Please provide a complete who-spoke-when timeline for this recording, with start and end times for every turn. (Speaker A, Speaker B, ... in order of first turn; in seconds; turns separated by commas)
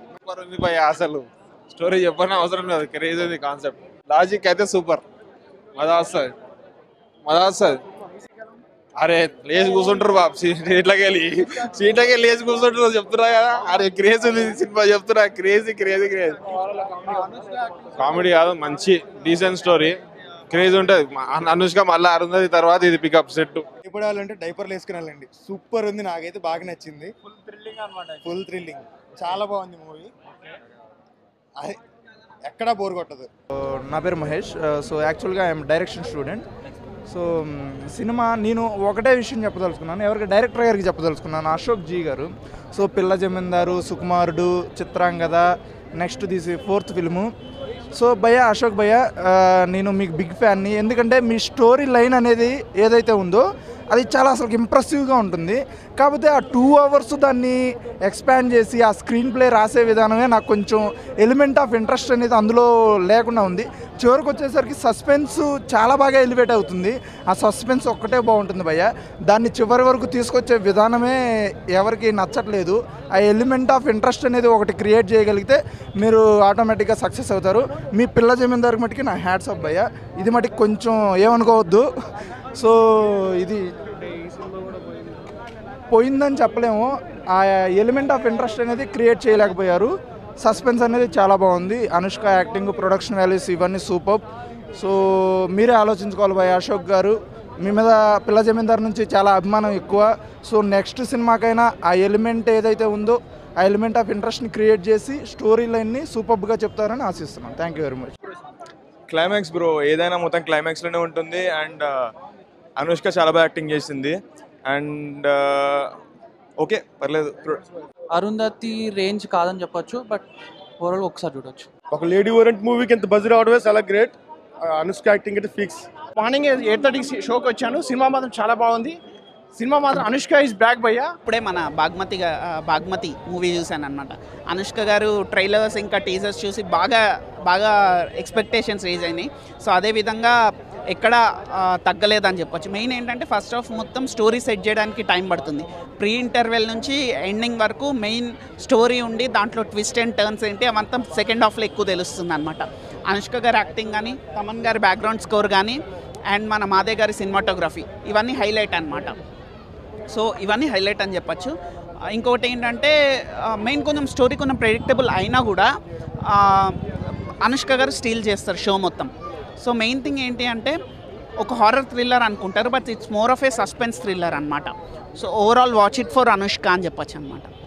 Speaker A: 0.2-5.0, Speaker A: 5.8-6.3, Speaker A: 7.2-7.8, Speaker A: 9.0-16.4, Speaker A: 18.0-20.0, Speaker A: 20.5-23.6, Speaker B: 23.8-27.1, Speaker B: 28.2-30.1, Speaker B: 32.5-33.3, Speaker C: 33.6-36.5, Speaker C: 37.1-47.3, Speaker C: 47.9-71.2, Speaker C: 71.8-81.9, Speaker C: 82.5-83.6, Speaker C: 85.9-94.2, Speaker C: 94.8-108.1, Speaker D: 109.1-112.1, Speaker D: 112.8-115.9, Speaker D: 116.6-117.6, Speaker E: 118.1-120.3, Speaker E: 120.8-121.7, Speaker B: 121.9-124.2, Speaker B: 124.7-125.9, Speaker F: 126.2-129.0, Speaker F: 129.6-131.1, Speaker G: 131.3-140.3, Speaker G: 140.9-155.8, Speaker G: 156.3-159.1, Speaker G: 160.1-161.5, Speaker G: 162.1-162.9, Speaker G: 163.5-165.7, Speaker G: 166.3-166.8, Speaker G: 167.4-169.1, Speaker G: 169.6-170.8, Speaker G: 171.4-177.5